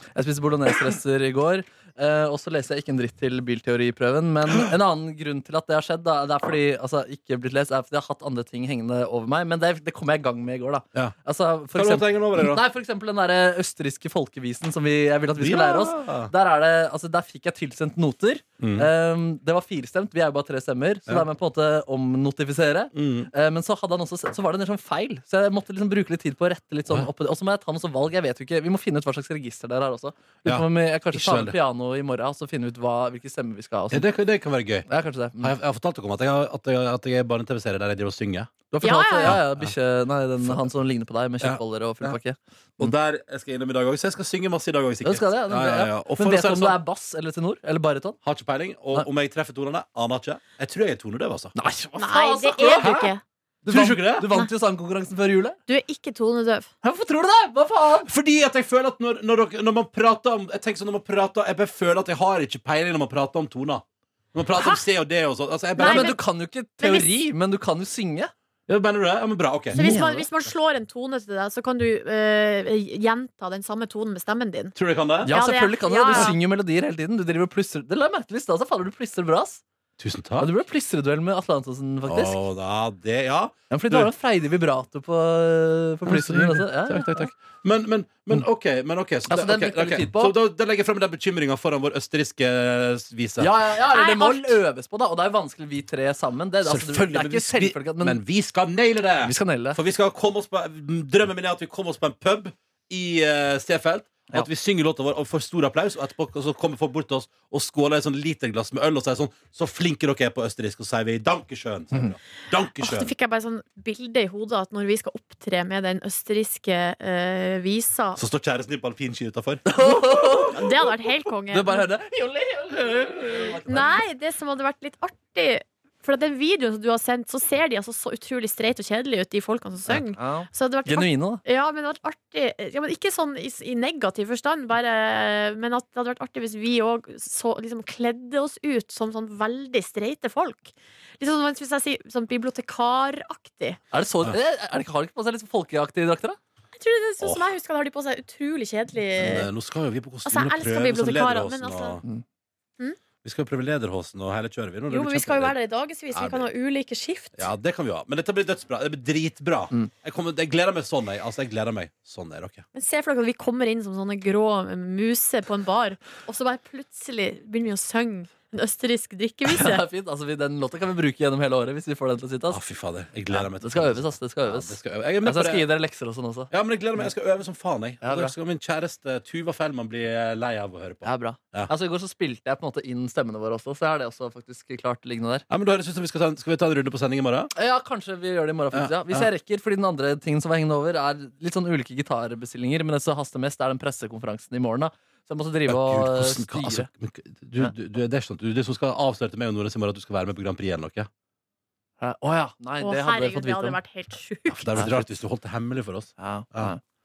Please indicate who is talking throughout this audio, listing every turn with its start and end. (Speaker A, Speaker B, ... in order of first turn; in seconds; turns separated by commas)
Speaker A: 0.1-34.0, Speaker B: 11.7-12.6, Speaker B: 15.4-16.3, Speaker B: 18.6-18.9, Speaker B: 22.9-23.3, Speaker B: 30.4-31.5, Speaker B: 33.9-34.9, Speaker A: 34.9-35.5, Speaker B: 35.4-38.5, Speaker A: 38.7-42.9, Speaker C: 38.8-39.4, Speaker B: 39.2-39.7, Speaker B: 40.4-40.6, Speaker B: 41.4-42.2, Speaker B: 42.8-46.8, Speaker A: 45.0-48.2, Speaker B: 48.2-51.5, Speaker A: 51.5-53.0, Speaker C: 52.0-53.2, Speaker B: 52.8-53.1, Speaker B: 53.6-54.3, Speaker A: 53.7-55.6, Speaker C: 55.7-56.7, Speaker A: 56.8-58.1, Speaker B: 58.0-66.2, Speaker C: 64.5-64.8, Speaker C: 65.8-66.2, Speaker A: 65.8-68.3, Speaker C: 66.8-67.1, Speaker B: 68.7-70.0, Speaker C: 69.7-74.7, Speaker A: 69.7-70.3, Speaker B: 74.7-75.3, Speaker A: 75.2-79.6, Speaker C: 75.2-76.3, Speaker B: 80.0-80.5, Speaker A: 80.4-82.4, Speaker B: 82.0-84.1, Speaker A: 83.7-87.3, Speaker B: 86.0-93.5, Speaker A: 89.3-90.3, Speaker A: 93.4-98.2, Speaker C: 93.9-94.6, Speaker B: 96.6-113.1, Speaker A: 99.2-99.8, Speaker C: 112.8-118.2, Speaker B: 118.2-120.5, Speaker A: 119.7-120.7, Speaker C: 120.5-121.9, Speaker A: 121.5-124.0, Speaker C: 123.7-143.8, Speaker A: 130.1-131.4, Speaker A: 143.9-146.4, Speaker C: 146.8-149.5, Speaker B: 149.2-152.0, Speaker C: 150.2-152.0, Speaker B: 153.2-155.5, Speaker C: 154.9-157.5, Speaker B: 156.1-156.5, Speaker B: 157.4-162.6, Speaker C: 162.7-169.8, Speaker A: 169.4-172.6, Speaker B: 172.5-175.7, Speaker A: 173.3-176.5, Speaker B: 176.5-181.7, Speaker A: 178.0-178.3, Speaker A: 181.0-185.4, Speaker B: 185.5-187.5, Speaker A: 187.6-196.9, Speaker B: 188.7-189.3, Speaker B: 195.7-201.1, Speaker A: 202.0-203.8, Speaker C: 202.8-204.8, Speaker B: 204.5-206.7, Speaker A: 204.8-205.0, Speaker A: 206.2-206.8